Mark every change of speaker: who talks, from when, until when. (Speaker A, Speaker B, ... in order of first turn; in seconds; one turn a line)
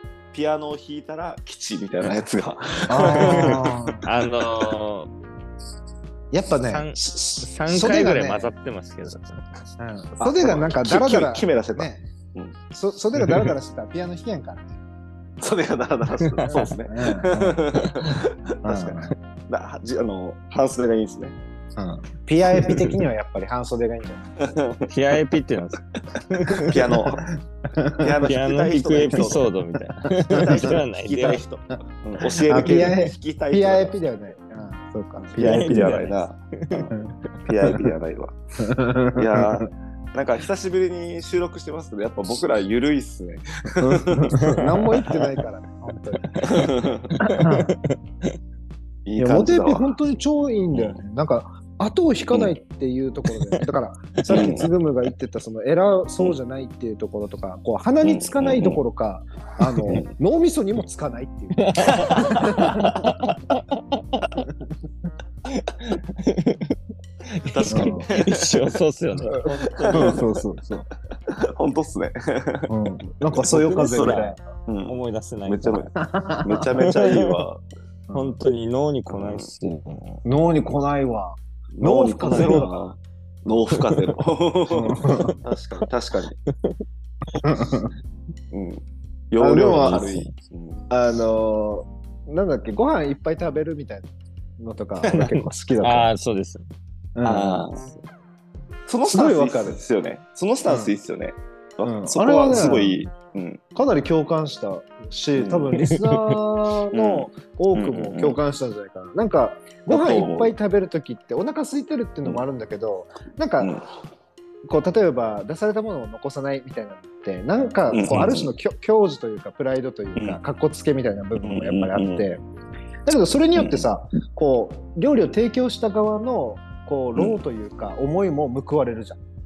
Speaker A: 0.3-3.9
Speaker B: 2.9-4.0
Speaker C: 3.0-5.1
Speaker B: 6.3-8.5
Speaker C: 6.6-9.8
Speaker B: 9.8-12.1
Speaker A: 10.2-12.6
Speaker B: 12.7-14.7
Speaker C: 13.2-13.5
Speaker A: 15.4-19.0
Speaker C: 16.2-16.7
Speaker B: 16.5-17.6
Speaker C: 17.7-18.1
Speaker B: 18.6-19.1
Speaker A: 19.5-21.4
Speaker B: 21.8-24.2
Speaker A: 24.5-24.9
Speaker C: 24.9-26.8
Speaker A: 26.7-27.2
Speaker B: 27.1-28.1
Speaker A: 28.0-29.5
Speaker C: 28.2-31.4
Speaker A: 30.4-34.0
Speaker B: 32.5-36.0
Speaker C: 32.5-32.9
Speaker A: 35.2-36.9
Speaker C: 35.4-36.9
Speaker A: 37.5-38.4
Speaker B: 38.6-39.6
Speaker A: 39.1-44.5
Speaker B: 43.8-46.3
Speaker C: 44.6-45.1
Speaker C: 46.2-48.0
Speaker A: 46.5-47.1
Speaker B: 47.2-47.7
Speaker A: 49.0-49.9
Speaker B: 49.2-62.8
Speaker A: 50.7-51.0
Speaker C: 54.3-54.6
Speaker A: 54.3-54.7
Speaker A: 58.0-58.8
Speaker C: 61.6-63.6
Speaker C: 65.6-66.7
Speaker C: 67.4-70.2
Speaker A: 67.5-68.3
Speaker B: 67.7-68.1
Speaker B: 69.2-70.9
Speaker A: 69.5-70.2
Speaker A: 71.3-72.7
Speaker B: 72.7-74.4
Speaker A: 73.4-77.6
Speaker C: 73.4-75.9
Speaker B: 76.0-76.6
Speaker C: 76.8-77.4
Speaker B: 78.1-78.4
Speaker C: 78.1-80.2
Speaker A: 79.1-79.5
Speaker B: 80.2-82.7
Speaker A: 81.7-86.3
Speaker C: 82.2-82.7
Speaker C: 83.7-84.1
Speaker B: 84.7-85.3
Speaker B: 87.4-87.9
Speaker A: 88.5-90.8
Speaker B: 89.4-90.3
Speaker B: 90.9-96.1
Speaker C: 95.1-96.7
Speaker B: 97.1-97.7
Speaker A: 97.2-97.8
Speaker A: 98.9-103.6
Speaker B: 99.1-99.8
Speaker B: 100.7-100.9
Speaker B: 101.8-103.1
Speaker B: 103.7-113.7
Speaker A: 105.3-105.8
Speaker C: 105.8-106.2
Speaker A: 106.9-108.4
Speaker A: 109.9-110.5
Speaker A: 113.6-113.9
Speaker B: 114.7-122.4
Speaker A: 117.9-118.5
Speaker A: 121.4-122.3
Speaker B: 123.0-129.2
Speaker A: 123.5-123.9